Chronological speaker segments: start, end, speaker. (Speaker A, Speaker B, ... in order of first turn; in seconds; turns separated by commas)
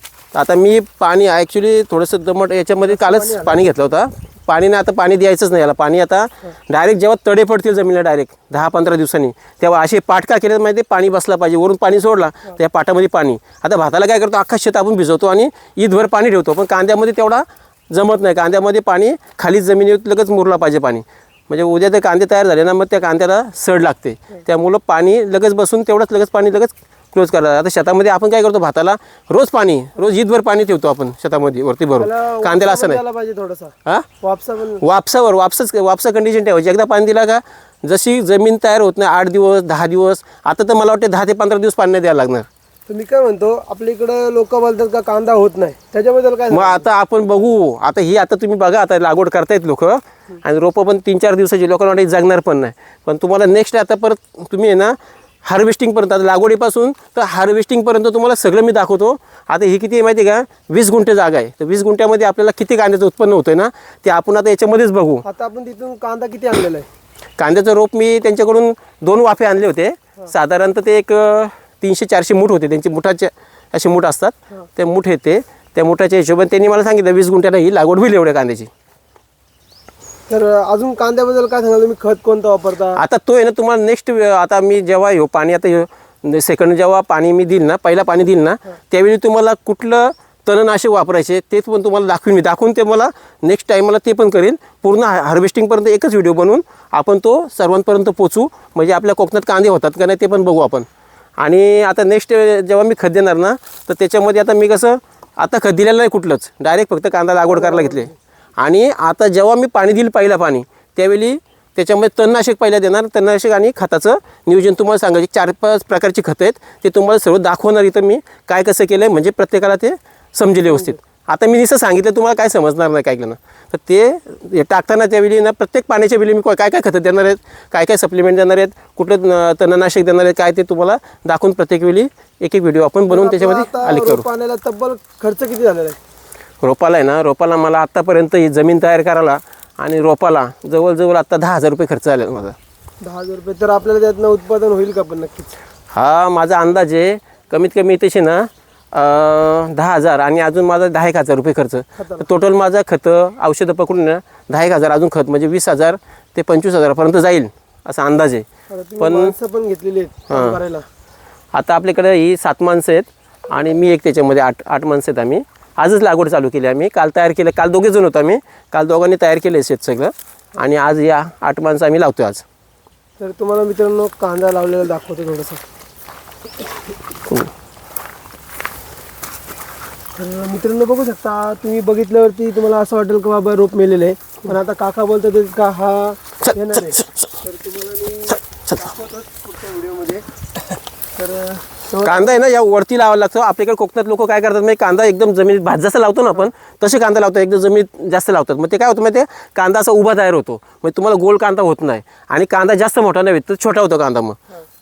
Speaker A: 0.3-33.0, Speaker B: 2.9-3.6, Speaker B: 32.0-34.8, Speaker A: 34.8-42.5, Speaker B: 42.9-46.9, Speaker A: 46.5-65.2, Speaker B: 65.2-66.9, Speaker A: 67.4-78.7, Speaker B: 80.3-83.0, Speaker A: 82.9-100.9, Speaker A: 101.4-134.2, Speaker B: 107.5-108.1, Speaker B: 120.7-121.0, Speaker B: 133.1-136.0, Speaker A: 136.6-142.6, Speaker B: 143.0-145.5, Speaker A: 145.9-158.4, Speaker B: 152.0-152.3, Speaker B: 158.7-160.8, Speaker A: 159.0-159.3, Speaker A: 160.3-160.6, Speaker A: 161.5-172.4, Speaker B: 173.2-175.6, Speaker B: 180.2-190.2, Speaker A: 186.4-187.1, Speaker B: 191.2-192.3, Speaker A: 192.0-204.4